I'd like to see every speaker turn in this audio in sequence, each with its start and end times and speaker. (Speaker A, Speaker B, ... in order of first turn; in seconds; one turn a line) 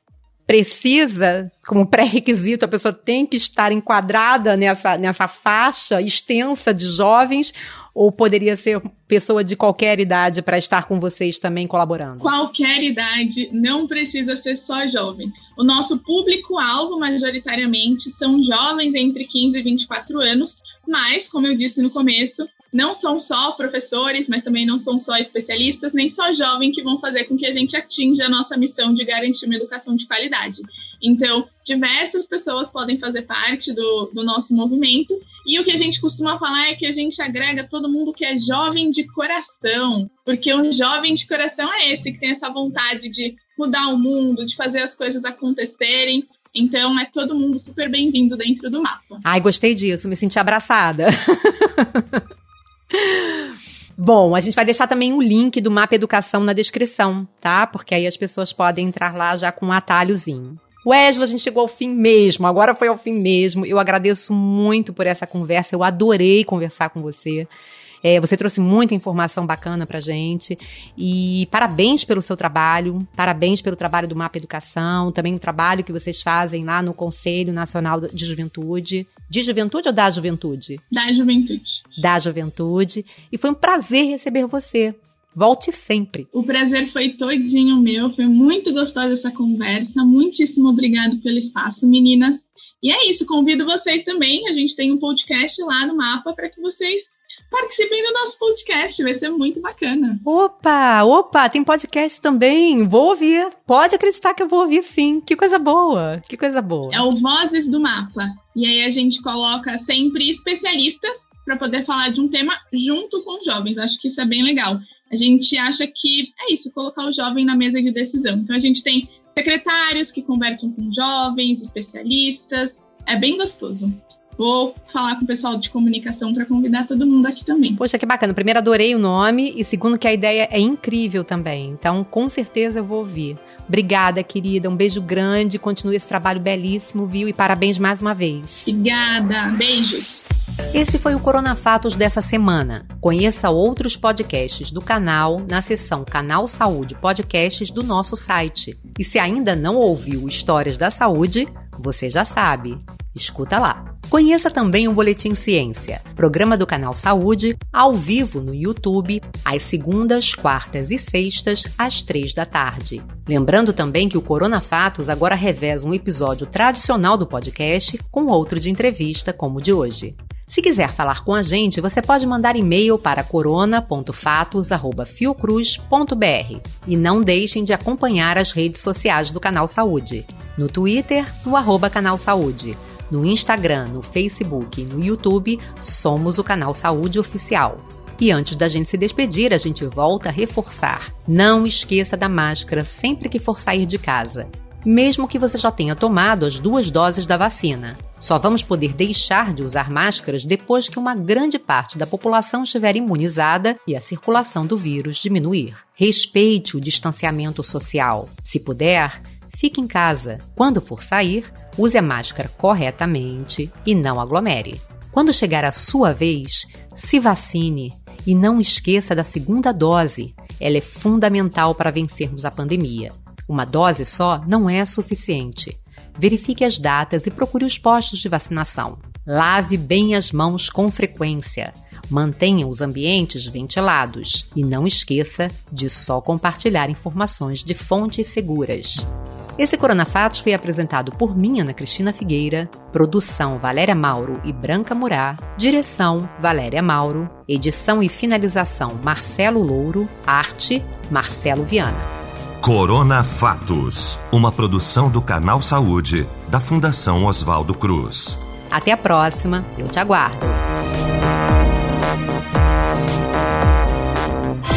Speaker A: 0.5-12.3
Speaker B: 12.2-49.2
Speaker A: 49.2-52.2
Speaker A: 52.9-67.5
Speaker A: 68.0-80.8
Speaker B: 80.9-82.0
Speaker A: 82.0-86.3
Speaker B: 86.3-100.2
Speaker A: 100.2-107.1
Speaker B: 106.9-127.8
Speaker A: 127.8-138.7
Speaker B: 138.7-140.2
Speaker A: 140.7-252.1
Speaker C: 252.6-258.4
Speaker A: 258.7-260.6